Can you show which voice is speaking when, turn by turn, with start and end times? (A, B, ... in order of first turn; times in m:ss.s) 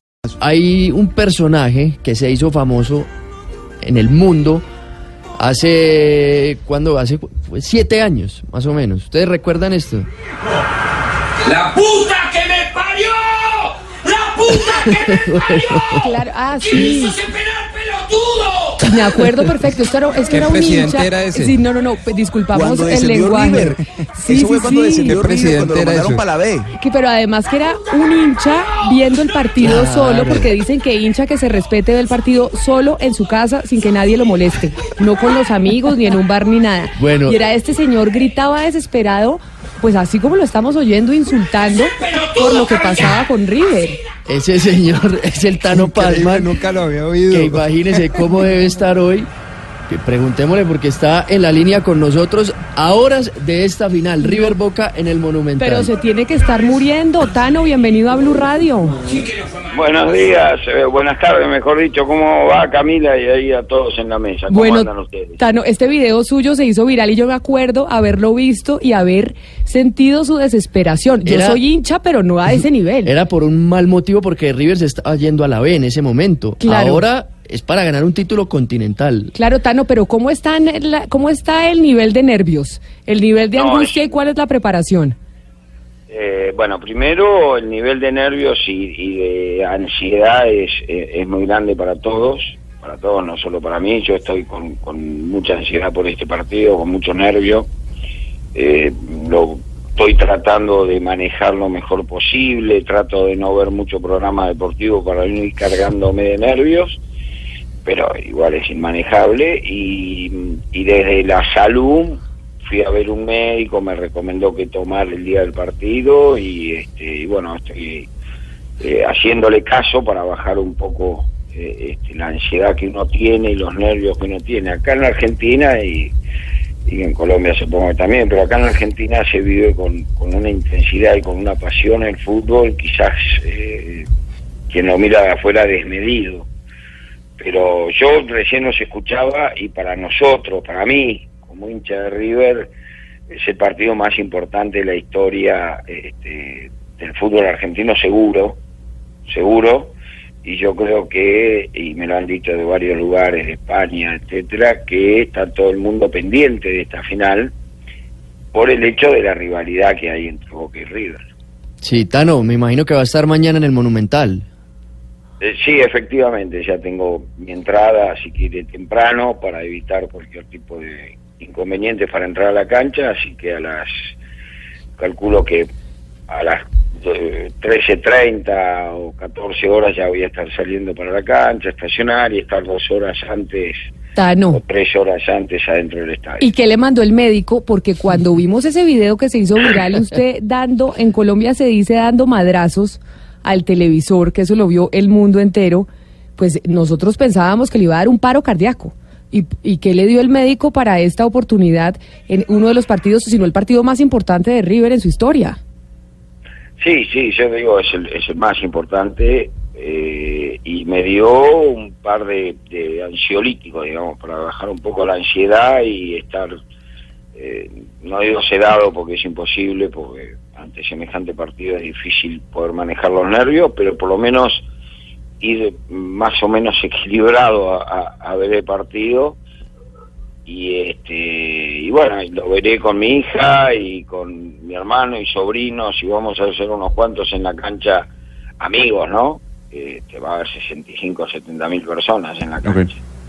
0:00.4-0:03.1 A
0:03.8-0:04.6 A
0:05.4-0:10.1 A
0:11.5-0:15.1 B
0:14.5-0:16.0 A
0:16.0-0:17.2 C
0:17.0-0:18.7 B
0:18.8-0:25.2 C
0:20.3-0:21.6 D
0:22.5-0:23.8 E
0:24.3-0:26.7 E
0:25.0-0:26.3 D
0:26.8-0:44.0 C
0:29.6-0:30.5 A
0:37.0-0:37.4 A
0:44.3-0:46.6 A
0:45.7-0:47.6 D
0:47.3-0:49.3 A
0:49.9-0:55.9 A
0:54.2-0:54.5 C
0:55.6-0:59.0 C
0:59.7-1:05.4 F
1:04.5-1:13.1 C
1:11.2-1:11.6 A
1:13.0-1:19.3 A
1:16.6-1:17.1 C
1:19.3-1:25.2 C
1:23.5-1:24.2 F
1:26.1-1:37.7 F
1:38.5-1:47.0 F
1:47.8-1:58.1 F
1:58.8-2:06.1 F
2:06.8-2:14.1 F
2:14.7-2:16.5 F
2:17.4-2:22.7 F
2:23.3-2:28.6 F
2:29.3-2:37.5 F
2:38.5-2:41.2 F
2:41.8-2:44.4 A
2:45.4-2:54.1 F
2:55.0-2:55.7 F
2:56.3-3:03.8 F
3:04.1-3:04.6 C
3:04.5-3:06.5 F
3:06.4-3:25.6 C
3:26.8-3:36.5 F
3:37.4-3:44.6 F
3:45.4-3:49.4 F
3:50.5-3:58.1 F
3:58.6-4:03.0 F